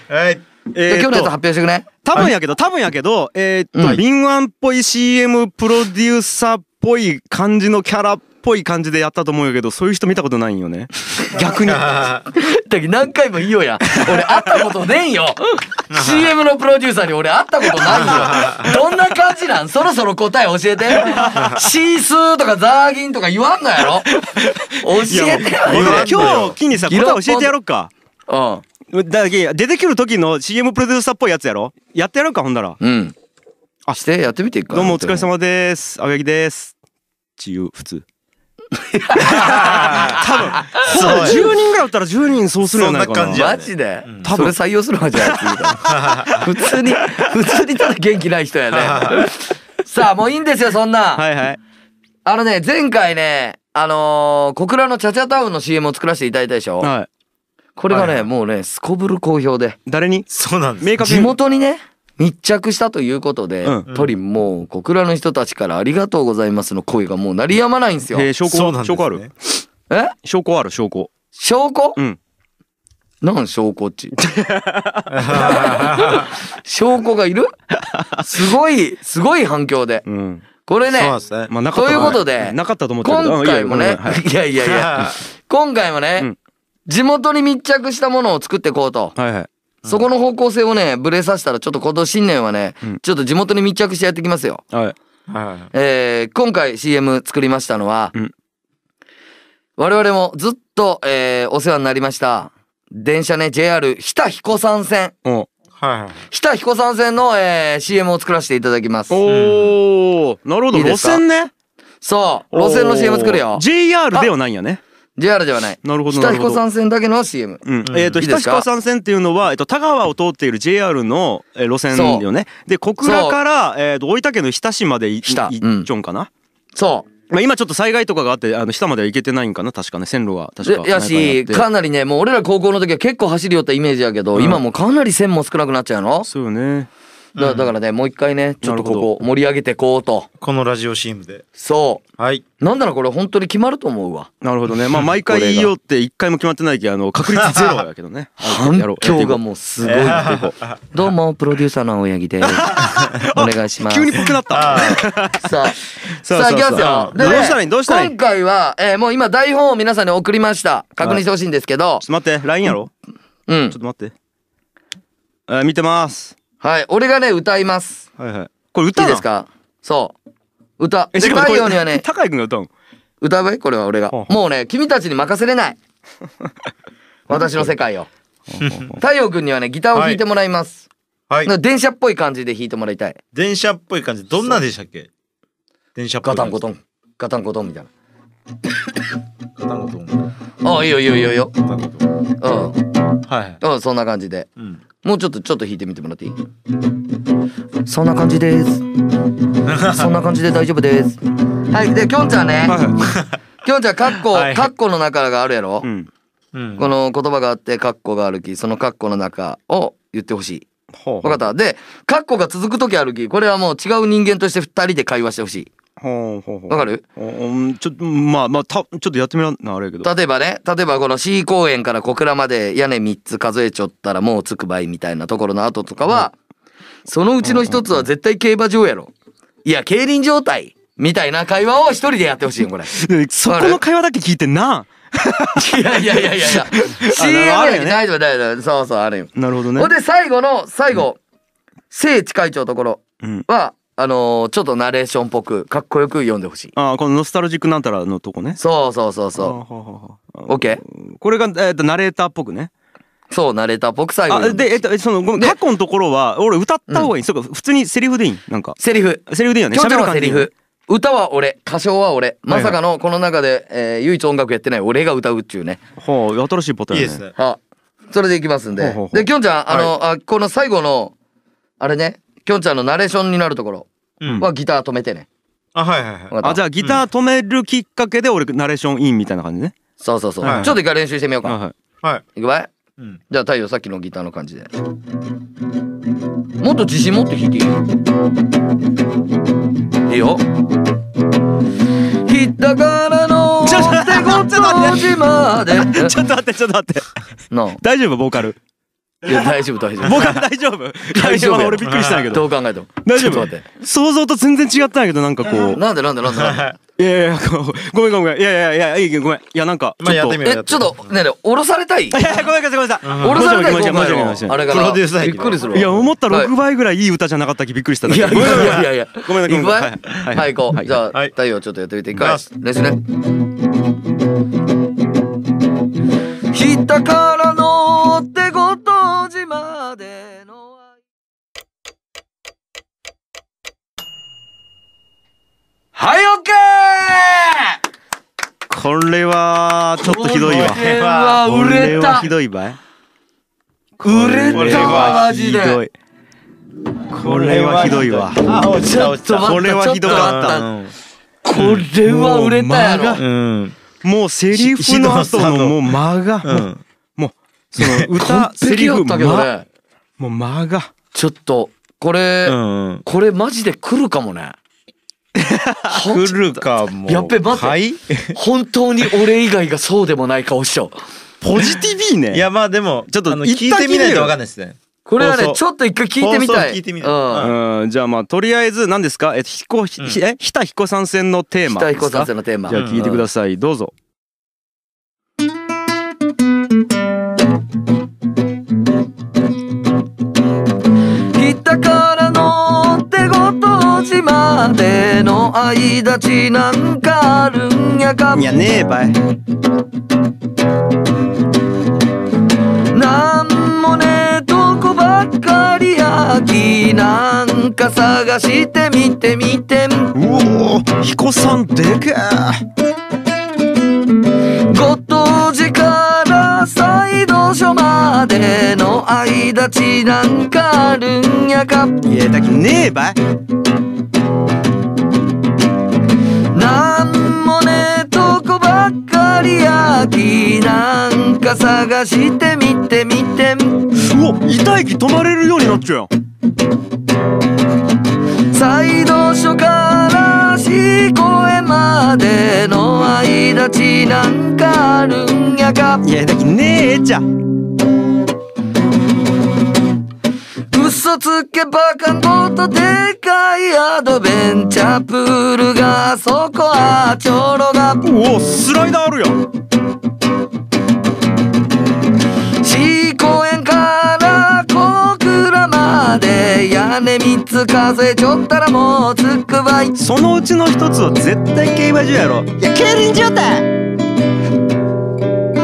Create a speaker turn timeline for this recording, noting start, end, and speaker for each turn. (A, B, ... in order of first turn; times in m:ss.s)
0:00.1-0:00.5 A
0:00.7-0:01.3 B
0:00.9-0:01.9 C
0:02.0-0:12.1 B
0:03.8-0:04.0 C
0:11.6-0:12.2 A
0:12.3-0:24.1 C
0:14.0-0:14.4 B
0:15.9-0:16.3 A
0:17.9-0:18.7 A
0:21.0-0:21.6 B
0:21.4-0:21.6 A
0:24.1-0:27.9 B
0:24.7-0:27.5 C
0:25.6-0:26.6 A
0:28.3-0:28.6 C
0:28.9-0:32.8 B
0:32.8-0:33.1 C
0:34.0-0:35.3 C
0:34.7-0:36.7 B
0:37.4-0:38.0 B
0:38.7-0:41.4 C
0:39.3-0:43.5 B
0:39.4-0:40.2 A
0:40.9-0:41.5 A
0:42.7-0:44.3 A
0:43.3-0:51.2 C
0:44.2-0:44.6 B
0:45.2-0:46.4 B
0:45.8-0:46.4 A
0:48.7-0:49.3 A
0:51.2-0:51.6 B
0:52.2-0:56.9 C
0:56.8-0:57.1 B
0:57.8-0:59.8 C
0:57.9-0:58.3 A
0:59.9-1:00.3 B
1:00.3-1:01.0 A
1:00.8-1:01.3 B
1:01.0-1:08.3 C
1:03.9-1:04.1 A
1:08.1-1:09.3 B
1:08.5-1:09.3 A
1:09.9-1:10.1 C
1:10.2-1:11.1 B
1:11.4-1:12.0 C
1:13.2-1:14.1 C
1:14.2-1:15.7 B
1:15.1-1:16.3 A
1:15.3-1:17.5 C
1:17.9-1:18.3 B
1:18.2-1:20.0 C
1:20.1-1:20.4 B
1:20.6-1:21.1 C
1:20.9-1:22.2 A
1:21.5-1:24.2 B
1:21.7-1:26.3 C
1:24.6-1:25.2 A
1:26.9-1:29.1 C
1:29.2-1:29.5 B
1:29.9-1:34.6 C
1:35.3-1:35.7 A
1:35.7-1:38.1 C
1:39.8-1:45.1 C
1:45.8-1:46.3 A
1:46.3-1:49.2 C
1:49.1-1:51.5 B
1:49.3-1:49.7 A
1:50.7-1:51.2 C
1:52.0-1:54.3 C
1:52.5-1:54.8 B
1:55.2-1:57.6 C
1:55.8-1:56.6 B
1:57.6-2:06.3 B
1:57.9-1:58.2 A
1:58.2-1:58.6 C
2:01.9-2:02.2 C
2:03.0-2:03.4 C
2:05.2-2:05.9 C
2:06.8-2:07.1 C
2:07.3-2:11.6 B
2:10.6-2:16.3 C
2:14.4-2:14.6 B
2:16.3-2:16.9 B
2:17.4-2:17.7 A
2:17.4-2:20.3 C
2:18.6-2:19.1 B
2:20.4-2:21.4 A
2:21.6-2:22.0 C
2:22.2-2:22.4 A
2:22.6-2:24.3 C
2:24.4-2:29.4 B
2:25.2-2:25.7 C
2:27.4-2:27.7 A
2:28.4-2:34.3 C
2:29.8-2:31.0 A
2:32.4-2:35.5 B
2:34.5-2:35.0 A
2:35.3-2:42.0 C
2:36.2-2:38.1 B
2:36.7-2:37.6 A
2:42.0-2:42.9 B
2:43.5-2:43.8 C
2:43.7-2:44.1 B
2:45.5-2:46.4 B
2:46.6-2:48.1 C
2:48.2-2:49.2 B
2:49.0-2:50.2 C
2:50.8-2:52.0 C
2:51.1-2:52.7 B
2:53.2-2:55.8 C
2:57.3-2:58.1 C
2:58.5-2:59.0 B
2:58.6-2:58.9 A
2:59.0-3:00.9 C
2:59.9-3:00.2 A
3:01.4-3:03.2 C
3:03.3-3:05.1 A
3:06.0-3:06.6 A
3:06.2-3:07.9 C
3:09.6-3:10.3 A
3:10.6-3:11.5 C
3:11.6-3:12.0 A
3:12.4-3:12.8 C
3:13.2-3:13.6 A
3:13.6-3:14.5 C
3:15.0-3:16.4 C
3:17.9-3:18.9 C
3:19.6-3:20.1 A
3:19.9-3:21.2 C
3:21.7-3:22.8 C
3:22.6-3:23.0 B
3:23.1-3:23.4 A
3:23.6-3:25.9 C
3:24.2-3:24.7 A
3:25.8-3:26.1 B
3:26.5-3:26.9 A
3:26.8-3:30.6 C
3:31.0-3:31.4 B
3:31.2-3:35.7 C
3:36.0-3:40.1 B
3:36.7-3:37.0 C
3:40.0-3:46.4 C
3:47.1-3:49.1 C
3:47.5-3:47.8 B
3:49.6-3:52.9 C
3:52.9-3:58.0 B
3:53.5-3:53.8 C
3:55.6-4:01.2 C
3:59.4-3:59.9 B
4:01.9-4:06.7 C
4:06.8-4:08.6 B
4:08.6-4:09.6 C
4:09.4-4:12.7 B
4:10.5-4:10.8 C
4:13.3-4:14.7 C
4:14.3-4:20.5 B
4:18.8-4:25.8 C
4:26.0-4:27.2 B
4:26.9-4:27.3 A
4:27.4-4:31.2 C
4:28.8-4:29.3 B
4:31.8-4:33.9 C
4:34.2-4:34.5 A
4:34.4-4:35.3 C
4:35.8-4:37.0 A
4:36.3-4:36.6 C
4:36.4-4:39.8 B
4:40.0-4:41.6 C
4:40.4-4:40.8 B
4:40.4-4:40.8 A
4:41.4-4:41.7 B
4:42.4-4:42.7 C
4:43.3-4:44.7 C
4:46.6-4:47.8 C
4:50.1-4:50.4 C
4:52.2-4:56.2 C
4:53.6-4:57.1 B
4:57.5-4:57.8 C
4:57.8-4:58.6 B
4:59.2-5:00.4 C
5:00.0-5:02.5 B
5:01.1-5:03.6 C
5:01.8-5:02.3 A
5:03.0-5:05.8 B
5:05.7-5:06.7 C
5:06.3-5:06.8 A
5:07.0-5:10.4 B
5:10.0-5:11.0 A
5:10.4-5:12.4 C
5:12.1-5:14.7 B
5:13.0-5:13.5 A
5:13.2-5:16.5 C
5:14.6-5:16.1 A
5:15.7-5:20.9 B
5:18.1-5:23.0 C
5:22.2-5:22.4 A
5:26.5-5:30.9 C
5:35.9-5:37.8 C
5:38.7-5:40.9 B
5:40.0-5:42.3 C
5:40.3-5:41.5 A
5:41.4-5:42.8 B
5:44.0-5:45.8 C
5:44.0-5:45.9 B
5:44.5-5:45.3 A
5:47.1-5:50.9 A
5:47.1-5:48.4 B
5:48.6-5:50.7 C
5:49.4-5:50.6 B
5:51.4-5:53.2 C
5:51.6-5:53.2 B
5:53.2-5:53.8 A
5:54.0-5:59.5 B
5:54.5-5:55.8 A
5:56.4-5:56.8 A
5:57.8-5:58.1 A
5:58.1-5:59.6 C
6:00.2-6:00.9 B
6:01.1-6:04.6 C
6:02.4-6:03.0 A
6:05.4-6:05.9 B
6:05.9-6:07.8 C
6:06.0-6:08.4 A
6:08.3-6:10.9 C
6:11.4-6:12.5 B
6:12.3-6:15.6 A
6:13.1-6:14.4 B
6:15.1-6:17.5 C
6:16.2-6:17.5 A
6:17.4-6:23.9 B
6:21.7-6:23.2 C
6:22.7-6:23.1 A
6:31.3-6:38.6 C
6:38.3-6:39.2 B
6:42.9-6:50.2 C
6:50.2-6:52.6 B
6:54.7-7:02.1 C
7:02.1-7:03.2 B
7:06.5-7:13.9 C
7:13.9-7:16.1 B
7:18.5-7:26.1 C
7:26.0-7:27.2 B
7:30.7-7:38.1 C
7:38.0-7:39.4 B
7:42.6-7:50.0 C
7:50.0-7:53.7 B